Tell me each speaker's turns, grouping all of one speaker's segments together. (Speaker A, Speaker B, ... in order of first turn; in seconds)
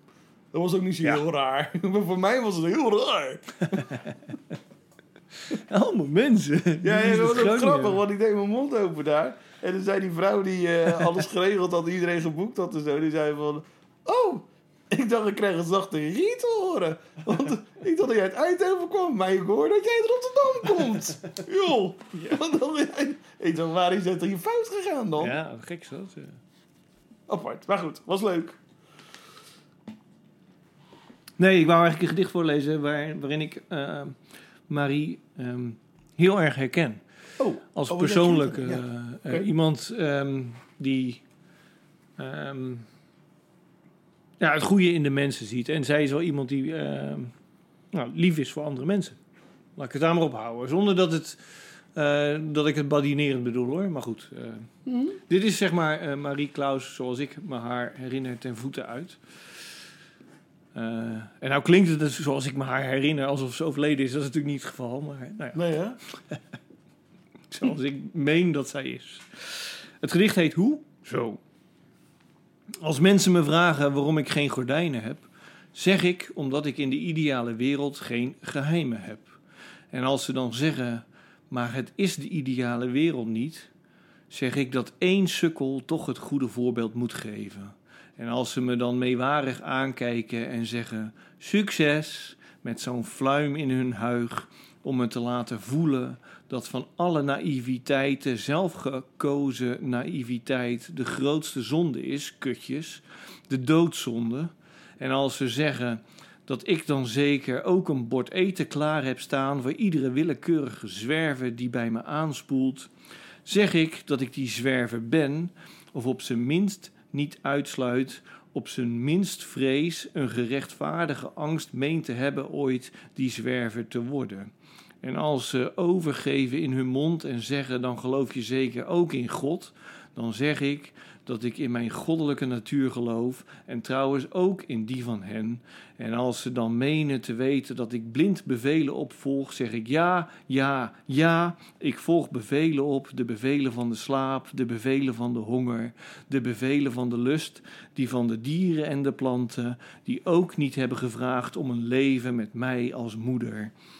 Speaker A: 0.5-3.9, 6.8-25.4, 27.3-28.6, 37.4-39.5, 54.9-55.2, 65.5-66.0
Speaker B: 3.7-4.1, 5.5-8.0, 25.2-26.4, 31.4-34.1, 34.7-37.0, 37.7-41.2, 42.2-42.9, 44.4-47.3, 47.9-49.2, 49.8-51.4, 51.9-54.7, 55.3-59.2, 60.7-66.4, 67.5-71.4, 72.8-79.3, 79.9-83.7, 84.3-112.9, 113.4-124.5, 125.0-153.7